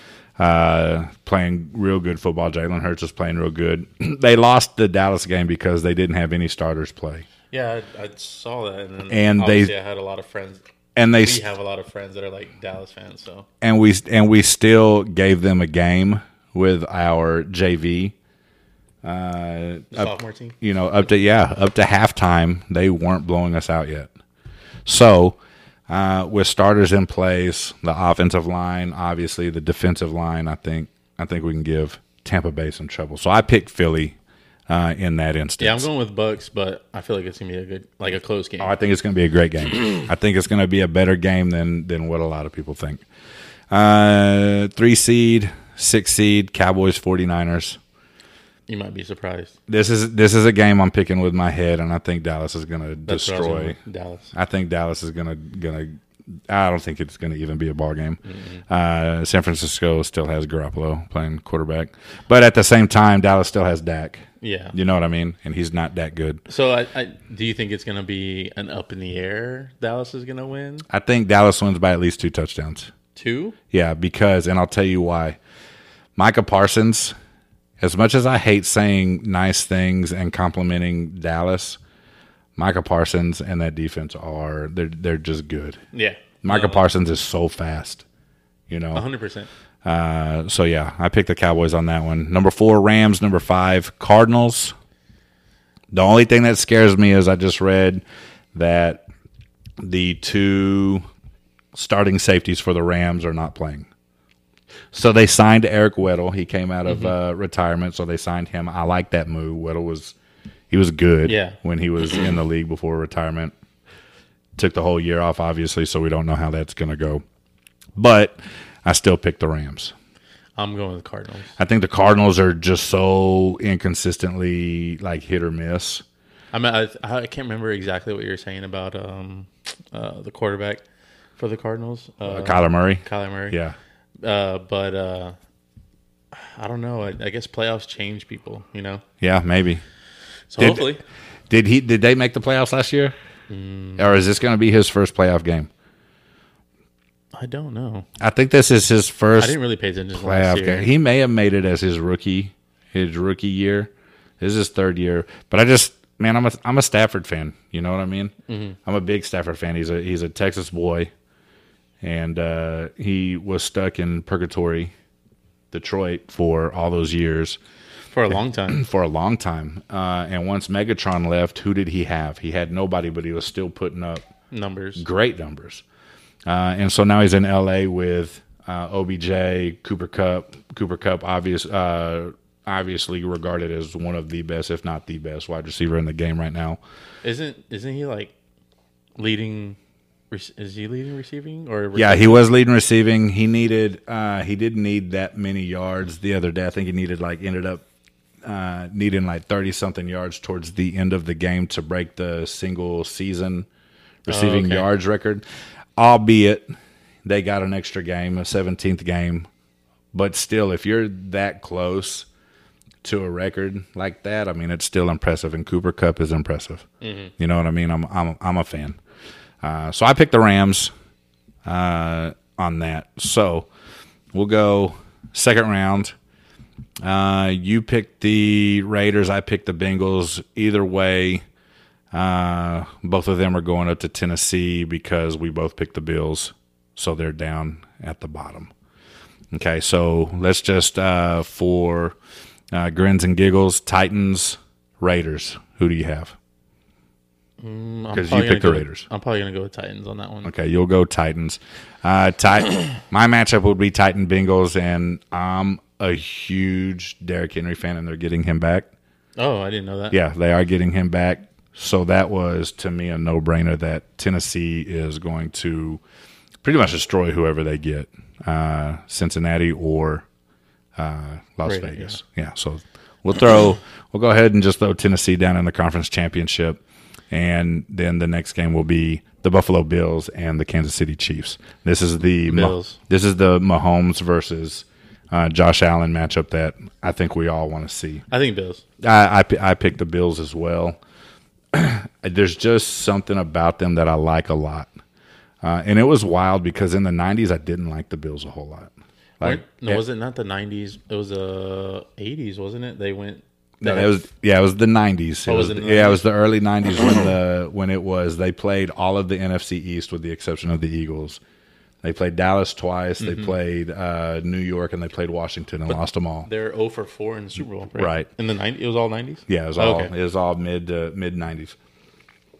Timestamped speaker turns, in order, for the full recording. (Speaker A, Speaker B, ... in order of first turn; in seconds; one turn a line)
Speaker A: 0.4-7.3
Speaker B: 7.5-10.6
Speaker A: 9.1-9.7
Speaker A: 10.9-11.4
Speaker B: 11.1-13.5
Speaker A: 13.6-18.1
Speaker A: 19.0-24.1
Speaker B: 19.9-20.6
Speaker A: 24.9-25.4
Speaker A: 25.9-34.1
Speaker A: 34.7-35.9
Speaker B: 35.6-38.7
Speaker A: 38.6-43.0
Speaker A: 43.7-47.8
Speaker B: 48.7-49.5
Speaker A: 49.7-53.8
Speaker B: 53.1-54.3
Speaker A: 54.3-56.0
Speaker A: 56.5-66.4
Speaker B: 58.2-58.6
Speaker B: 64.4-64.8
Speaker B: 66.5-70.8
Speaker A: 70.9-72.9
Speaker B: 73.1-73.5
Speaker A: 73.7-75.4
Speaker A: 76.2-77.1
Speaker A: 77.8-81.8
Speaker A: 82.5-85.8
Speaker B: 85.9-86.9
Speaker A: 86.4-88.0
Speaker A: 88.7-89.0
Speaker B: 88.9-89.5
Speaker A: 89.8-94.7
Speaker A: 95.9-98.0
Speaker A: 98.5-99.0
Speaker A: 99.8-101.0
Speaker A: 101.7-103.9
Speaker A: 104.9-110.1
Speaker B: 106.8-107.2
Speaker A: 110.7-113.5
Speaker B: 111.2-111.6
Speaker A: 114.6-117.2
Speaker A: 118.0-119.9
Speaker B: 120.5-121.6
Speaker A: 121.6-126.0
Speaker B: 126.5-130.8
Speaker B: 131.4-133.6
Speaker A: 132.2-133.8
Speaker B: 134.2-135.3
Speaker B: 136.3-139.0
Speaker A: 139.2-139.8
Speaker B: 140.5-141.0
Speaker A: 140.6-140.9
Speaker A: 141.5-143.1
Speaker B: 143.5-144.2
Speaker A: 144.0-145.7
Speaker B: 147.3-148.1
Speaker A: 148.2-149.6
Speaker B: 149.3-150.9
Speaker A: 150.1-158.3
Speaker B: 158.5-158.8
Speaker A: 158.8-161.1
Speaker A: 162.0-164.9
Speaker A: 165.7-167.6
Speaker B: 168.1-168.8
Speaker A: 168.7-174.2
Speaker B: 174.5-175.0
Speaker A: 174.9-175.8
Speaker A: 176.4-186.8
Speaker B: 187.2-188.3
Speaker B: 189.2-189.8
Speaker B: 190.3-192.5
Speaker A: 191.9-197.8
Speaker A: 198.4-203.7
Speaker A: 204.2-205.4
Speaker B: 204.3-204.9
Speaker A: 206.0-206.7
Speaker A: 207.2-209.5
Speaker A: 210.1-212.2
Speaker A: 213.0-216.8
Speaker B: 217.0-217.3
Speaker A: 217.4-219.0
Speaker A: 219.6-220.9
Speaker A: 221.6-223.7
Speaker A: 224.3-226.1
Speaker A: 227.0-231.4
Speaker A: 232.1-238.7
Speaker A: 239.5-242.2
Speaker A: 242.7-246.3
Speaker B: 247.6-250.5
Speaker A: 248.1-249.0
Speaker A: 250.4-258.9
Speaker B: 259.4-260.1
Speaker A: 260.1-266.0
Speaker A: 266.6-270.2
Speaker A: 271.0-288.2
Speaker B: 271.6-272.2
Speaker B: 282.5-283.0
Speaker B: 288.3-288.8
Speaker A: 289.0-291.0
Speaker A: 291.7-294.9
Speaker A: 295.6-300.0
Speaker B: 299.4-304.2
Speaker A: 303.8-311.4
Speaker B: 305.4-306.2
Speaker A: 312.0-316.5
Speaker B: 313.2-313.5
Speaker B: 315.9-320.1
Speaker A: 317.9-318.3
Speaker A: 319.5-321.7